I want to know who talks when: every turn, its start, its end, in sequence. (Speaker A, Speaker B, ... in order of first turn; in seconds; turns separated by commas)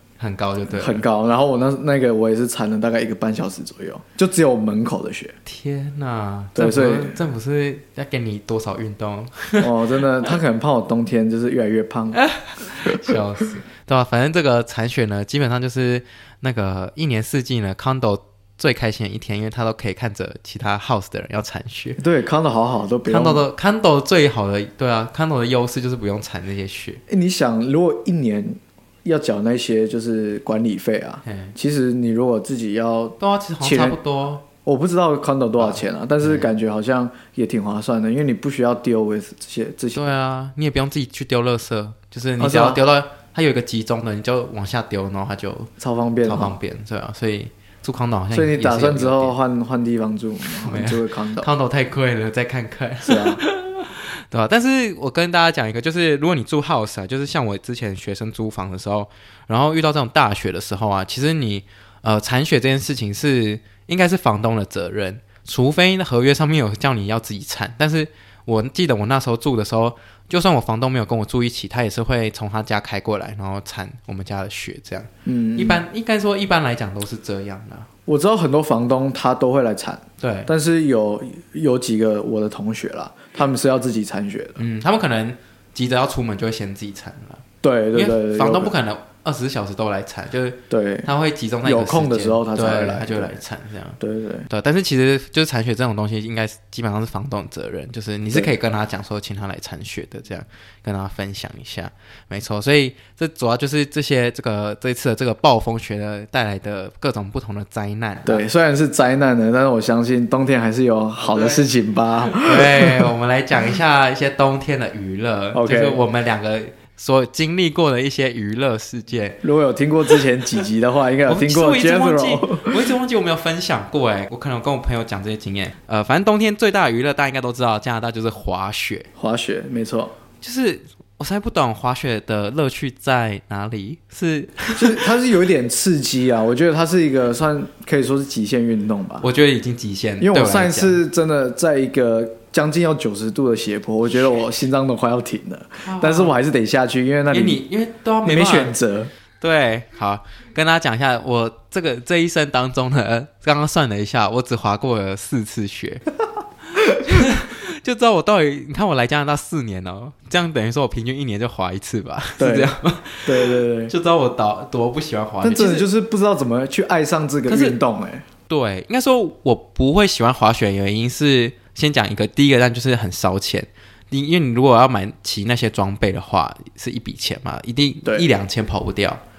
Speaker A: 0.2-1.0, Speaker B: 0.7-5.4, Speaker A: 5.5-9.7, Speaker B: 6.5-7.2, Speaker B: 9.6-12.2, Speaker A: 12.1-22.0, Speaker B: 12.9-13.2, Speaker B: 22.0-23.4, Speaker A: 23.1-27.0, Speaker B: 27.1-34.0, Speaker A: 31.2-31.6, Speaker A: 33.2-34.5, Speaker B: 34.6-40.0, Speaker A: 35.6-36.5, Speaker A: 39.9-45.7, Speaker B: 42.4-42.8, Speaker B: 45.8-46.6, Speaker A: 46.2-49.4, Speaker B: 48.3-51.5, Speaker A: 50.5-77.9, Speaker B: 53.0-53.4, Speaker B: 75.2-75.8, Speaker B: 78.1-84.6, Speaker A: 80.2-80.5, Speaker A: 84.6-87.4, Speaker B: 87.6-88.7, Speaker A: 87.9-94.0, Speaker B: 90.7-91.1, Speaker B: 91.6-93.4, Speaker B: 94.0-94.5, Speaker A: 94.5-108.5, Speaker B: 108.2-113.1, Speaker A: 111.2-111.6, Speaker A: 112.3-119.4, Speaker B: 115.5-116.0, Speaker B: 119.4-122.9, Speaker A: 121.3-129.1, Speaker B: 129.2-130.1, Speaker A: 130.4-135.1, Speaker B: 134.8-139.3, Speaker A: 139.2-141.0, Speaker B: 140.2-147.6, Speaker A: 145.8-146.4, Speaker A: 147.3-148.7, Speaker B: 148.2-149.1, Speaker A: 149.4-156.0, Speaker A: 156.9-165.9, Speaker B: 162.4-162.7, Speaker B: 163.2-163.9, Speaker B: 165.4-168.2, Speaker A: 167.5-167.8, Speaker A: 168.5-179.2